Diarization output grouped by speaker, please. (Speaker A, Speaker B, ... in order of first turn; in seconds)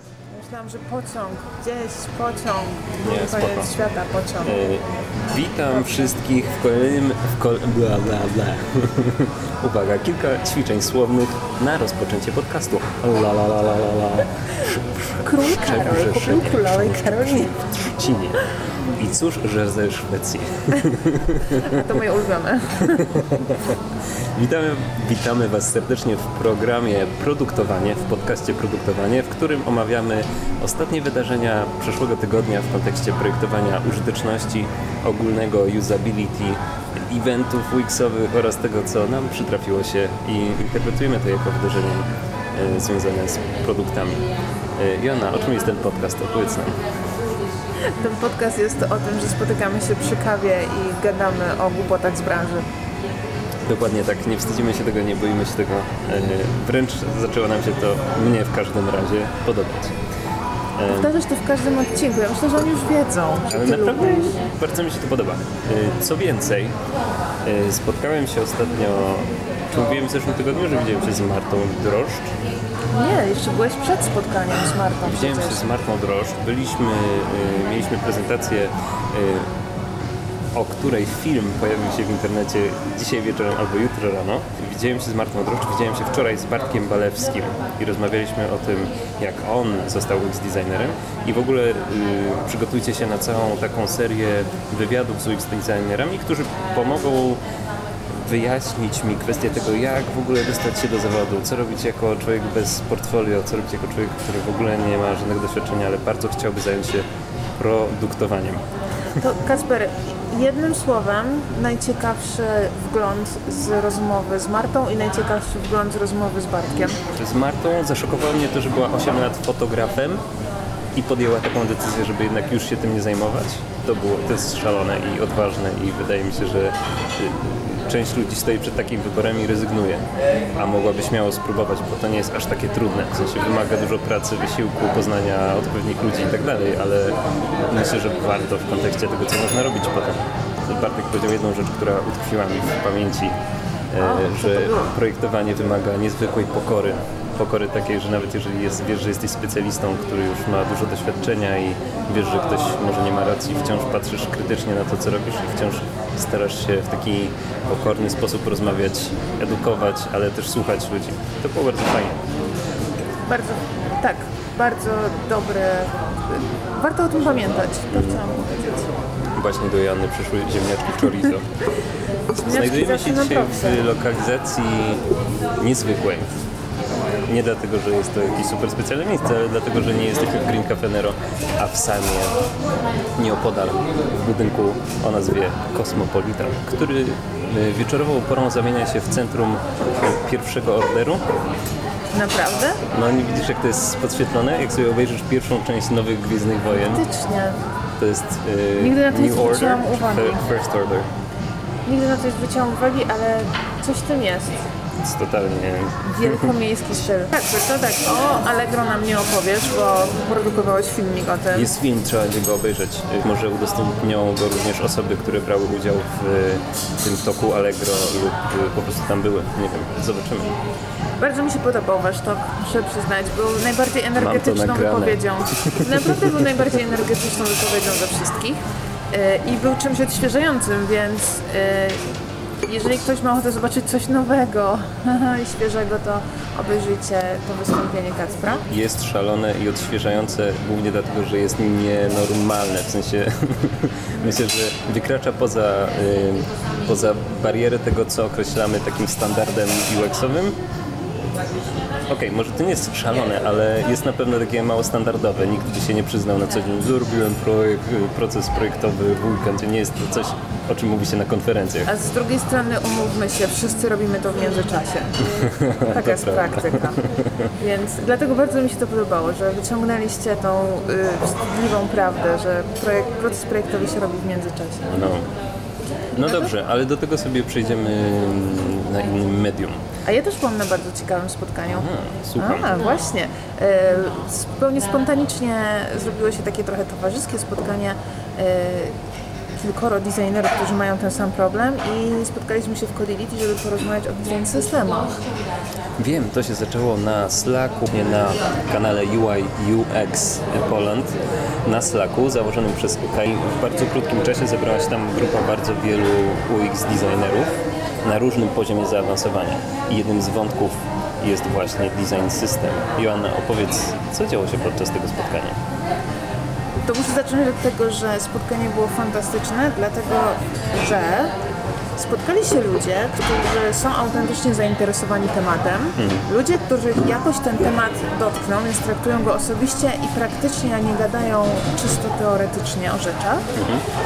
Speaker A: 0.3-4.6, 15.2-17.6, 21.4-23.4, 47.8-52.6, 60.9-64.3, 72.9-75.6, 109.2-117.0, 163.3-168.9, 172.3-173.9, 192.1-192.8, 196.8-197.6, 198.8-200.5, 201.8-204.6, 206.0-211.7, 221.2-228.6, 229.1-232.0, 232.6-238.6, 261.9-267.0, 267.6-274.9, 276.2-276.5, 280.0-288.9, 289.6-295.2, 316.9-321.3, 321.9-333.5
Speaker B: 3.0-3.7, 4.4-21.9, 22.8-23.8, 24.3-46.8, 53.6-60.0, 60.8-61.1, 63.5-66.8, 67.4-72.3, 75.0-79.5, 80.5-97.4, 98.1-107.0, 107.6-108.6, 117.1-120.2, 120.9-143.3, 143.9-162.2, 167.9-168.2, 169.3-171.4, 172.4-176.3, 177.2-182.4, 183.2-191.2, 192.9-197.0, 198.0-201.1, 205.0-206.4, 211.5-220.5, 224.2-226.2, 238.7-250.6, 252.1-261.9, 265.4-267.5, 274.9-275.3, 276.1-279.8, 281.7-282.7, 296.0-307.5, 308.0-315.6, 326.0-326.2, 333.6-333.8